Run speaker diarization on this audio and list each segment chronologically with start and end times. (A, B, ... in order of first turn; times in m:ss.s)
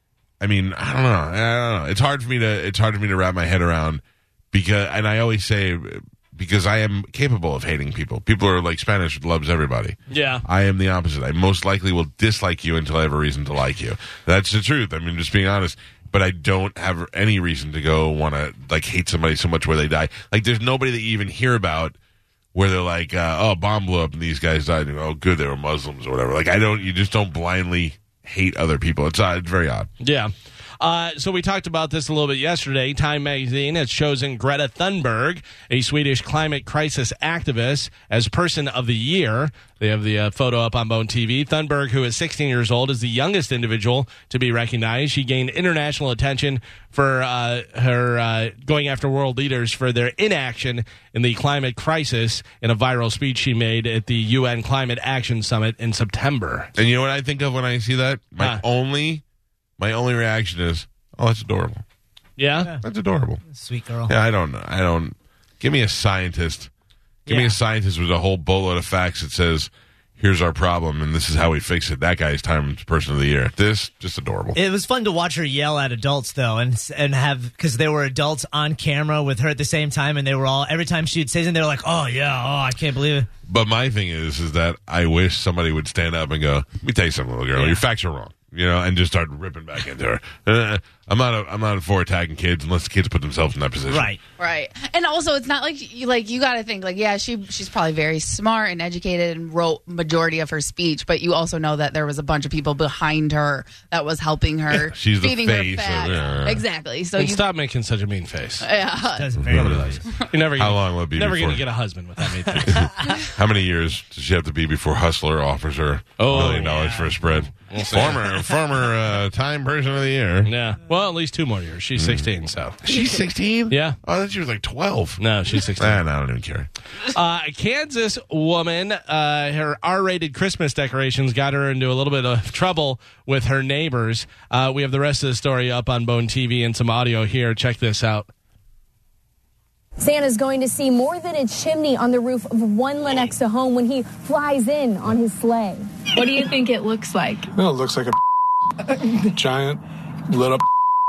0:00.4-0:22.0 A
0:10.1-0:10.4 B
0:22.5-0:29.9 A
0:30.0-0:56.7 B
0:56.8-0:59.2 A
0:58.4-0:58.6 B
0:59.8-1:01.8 A
1:02.4-1:02.7 B
1:02.8-1:03.4 A
1:03.5-1:04.1 C
1:04.1-1:06.7 A
1:07.3-1:07.6 C
1:07.3-1:14.6 A
1:14.6-1:23.3 C
1:23.5-1:34.2 A
1:27.6-1:27.8 C
1:33.9-1:34.2 C
1:34.4-1:47.4 D
1:44.7-1:46.6 A
1:47.2-1:48.7 B
1:48.6-1:49.3 D
1:49.2-1:50.0 C
1:49.4-1:50.0 A
1:50.3-1:52.9 B
1:50.5-1:51.6 A
1:52.5-2:00.5 A
1:56.2-1:56.9 B
1:56.4-1:57.2 C
1:57.7-1:58.4 B
2:00.4-2:02.8 B
2:02.0-2:02.3 A
2:02.8-2:05.2 A
2:03.7-2:04.0 B
2:05.2-2:06.0 B
2:05.7-2:06.7 A
2:07.1-2:18.3 B
2:20.0-2:27.5 E
2:27.5-2:28.2 F
2:29.2-2:30.6 F